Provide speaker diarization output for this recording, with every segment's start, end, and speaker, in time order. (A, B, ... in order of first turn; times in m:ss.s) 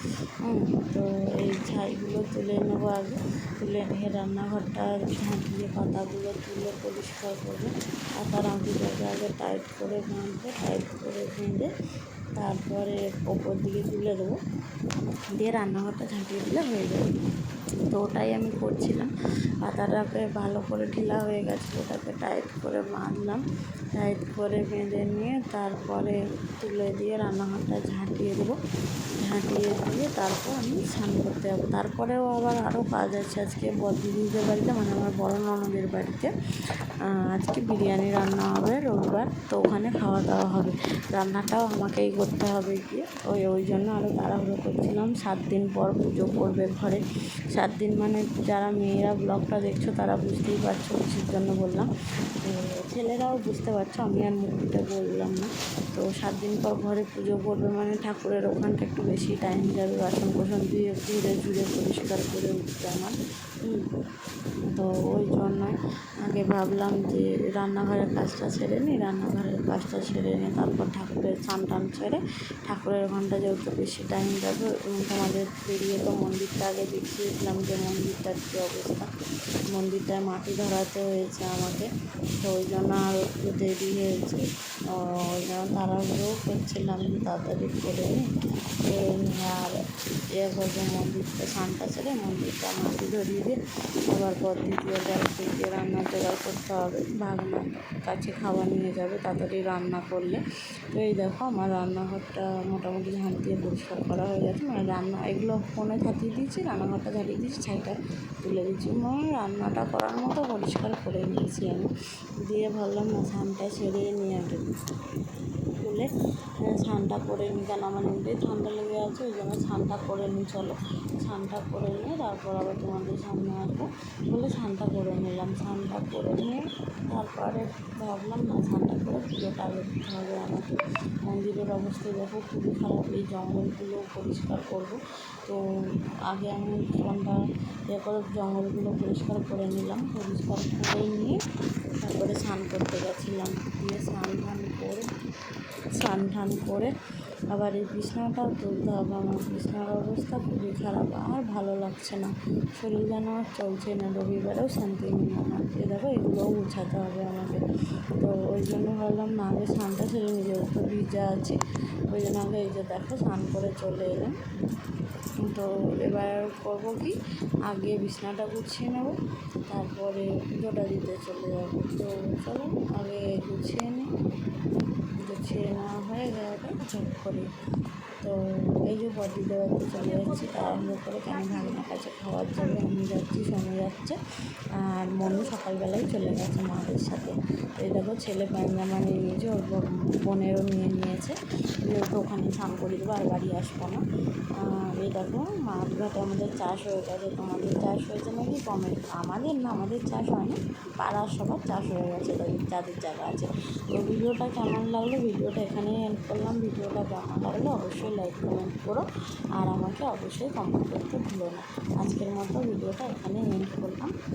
0:00.4-0:11.7 A
0:12.4-0:14.4 A
0:15.3-0:17.1 A
0:17.9-0:19.1 A
0:19.6-0:23.4 A
0:24.0-0:28.6 A
0:29.2-0:36.3 A
0:37.0-0:51.9 A
0:52.4-1:03.9 A
1:04.7-1:19.1 A
1:19.7-1:21.9 A
1:22.4-1:28.3 A
1:28.8-1:29.8 A
1:30.4-1:33.6 A
1:34.1-1:40.4 A
1:40.9-1:51.9 A
1:52.4-1:54.7 A
1:55.8-1:56.1 A
1:56.6-2:10.7 A
2:11.2-2:15.6 A
2:16.3-2:21.4 A
2:22.0-2:25.1 A
2:26.0-2:26.9 A
2:27.5-2:37.6 A
2:38.2-2:41.6 A
2:42.1-2:44.4 A
2:45.4-2:47.1 A
2:47.7-2:49.2 A
2:49.7-2:54.1 A
2:55.2-2:57.5 A
2:58.2-3:04.2 A
3:04.8-3:14.0 A
3:14.6-3:29.0 A
3:29.6-3:34.1 A